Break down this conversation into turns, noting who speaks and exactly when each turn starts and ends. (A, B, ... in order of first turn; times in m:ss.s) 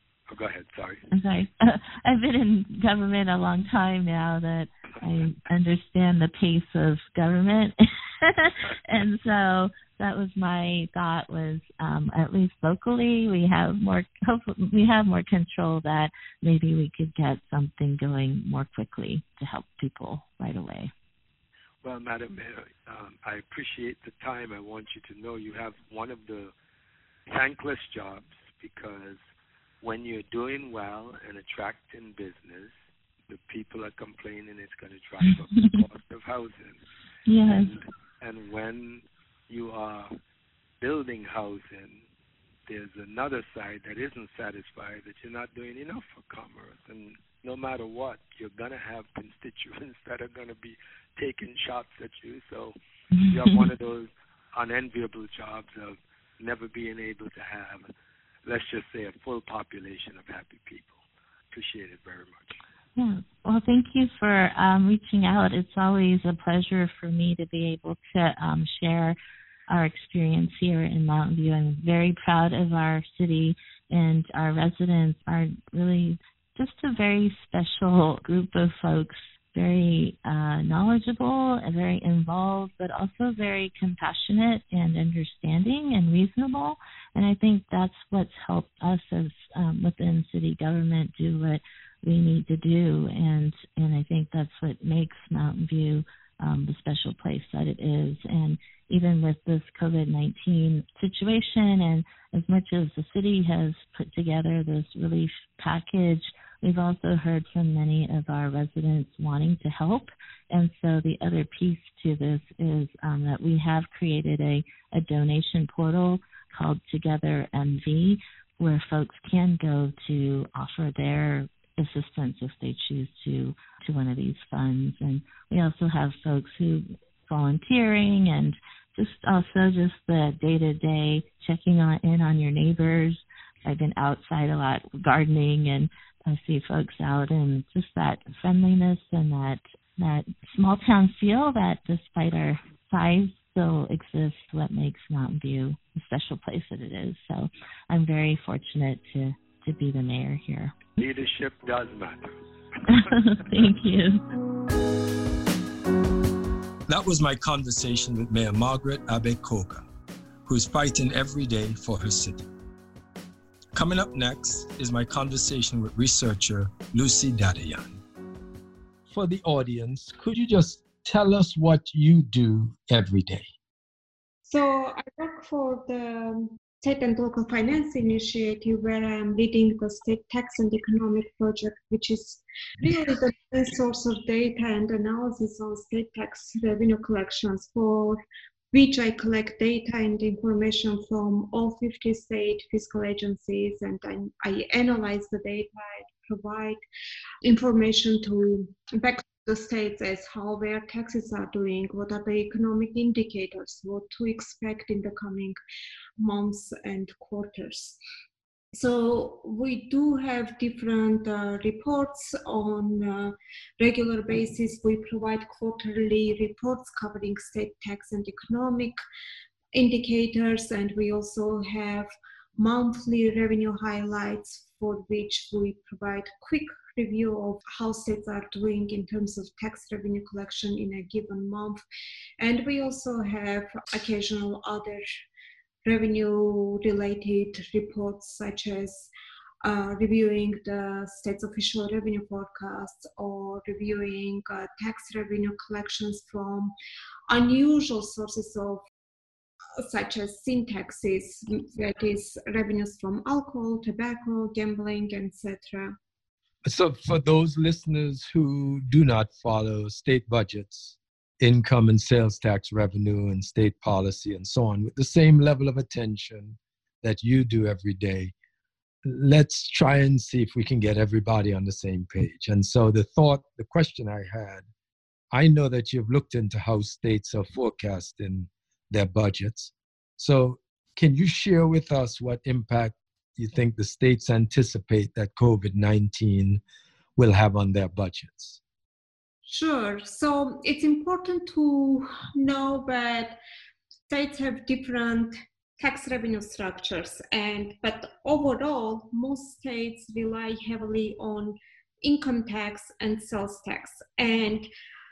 0:00.3-0:01.1 A
0:01.1-0:20.9 B
0:21.8-0:26.5 A
0:27.3-0:29.2 A
0:29.8-0:32.7 A
0:33.3-0:36.8 A
0:37.3-0:37.7 B
0:37.5-0:40.2 A
0:40.8-0:42.0 A
0:42.7-0:57.9 A
0:53.2-0:53.6 B
0:58.4-1:01.0 A
1:01.5-1:02.6 A
1:03.0-1:09.2 B
1:09.7-2:30.8 B
2:31.0-2:32.3 A
2:32.9-2:34.2 B
2:36.9-2:39.8 C
2:40.5-2:42.5 C
2:43.7-2:48.0 C
2:49.1-2:53.5 C
2:54.5-3:08.2 D
3:08.7-3:16.8 D
3:17.4-3:25.6 D
3:26.2-3:28.0 D
3:28.8-3:39.0 D
3:39.7-3:51.8 D
3:52.4-3:55.0 D
3:55.8-3:59.1 D
3:59.6-4:06.7 D
4:07.3-4:08.8 D
4:09.8-4:16.0 D
4:16.6-4:28.3 C
4:29.1-4:34.6 C
4:35.3-4:46.6 C
4:47.2-4:48.6 C
4:49.5-4:53.4 D
4:54.1-5:04.7 D